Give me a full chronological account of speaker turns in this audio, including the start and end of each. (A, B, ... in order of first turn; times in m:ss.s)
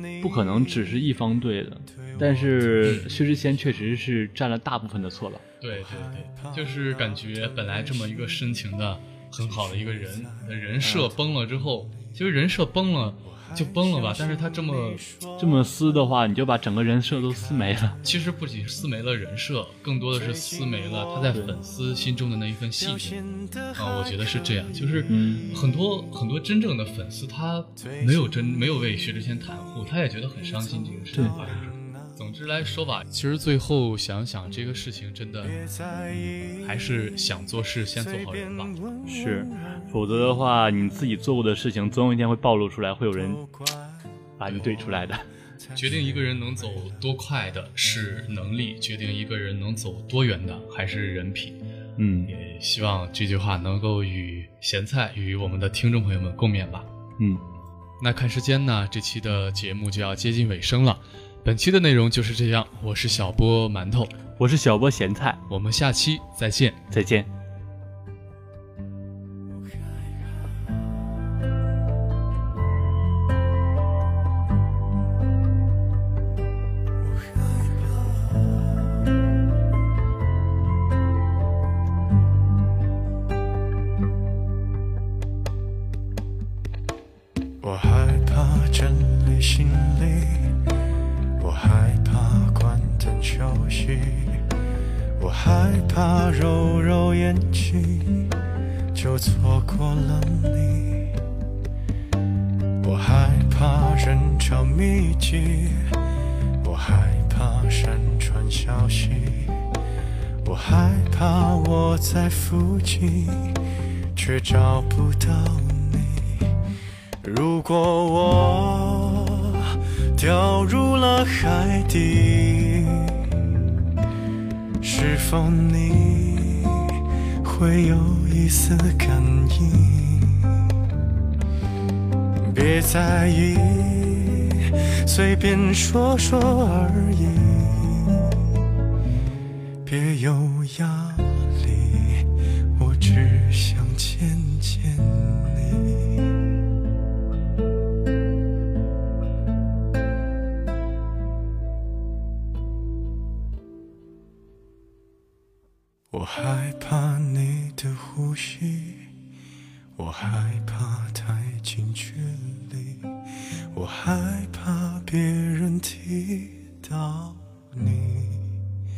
0:00.2-0:05.4 A
0:05.6-0:15.1 B
0:10.8-0:11.1 A
0:15.4-0:18.0 A
0:18.0-0:38.8 B
0:21.3-0:21.6 A
0:25.1-0:25.5 A
0:39.0-0:43.5 A
0:44.4-0:45.3 A
0:44.5-0:44.8 B
0:45.7-0:51.6 B
0:52.0-0:52.3 A
0:52.3-0:56.9 B
0:58.0-1:04.1 B
1:04.4-1:05.4 A
1:05.5-1:06.8 B
1:06.9-1:07.3 A
1:27.6-1:30.6 C
1:31.4-1:34.4 C
1:35.2-1:38.3 C
1:38.9-1:41.2 C
1:42.8-1:46.0 C
1:46.6-1:49.6 C
1:50.4-1:53.6 C
1:54.2-1:56.5 C
1:57.2-2:03.4 C
2:04.8-2:10.7 C
2:12.4-2:18.5 C
2:19.8-2:26.3 C
2:36.1-2:39.1 C
2:40.0-2:43.1 C
2:43.7-2:48.5 C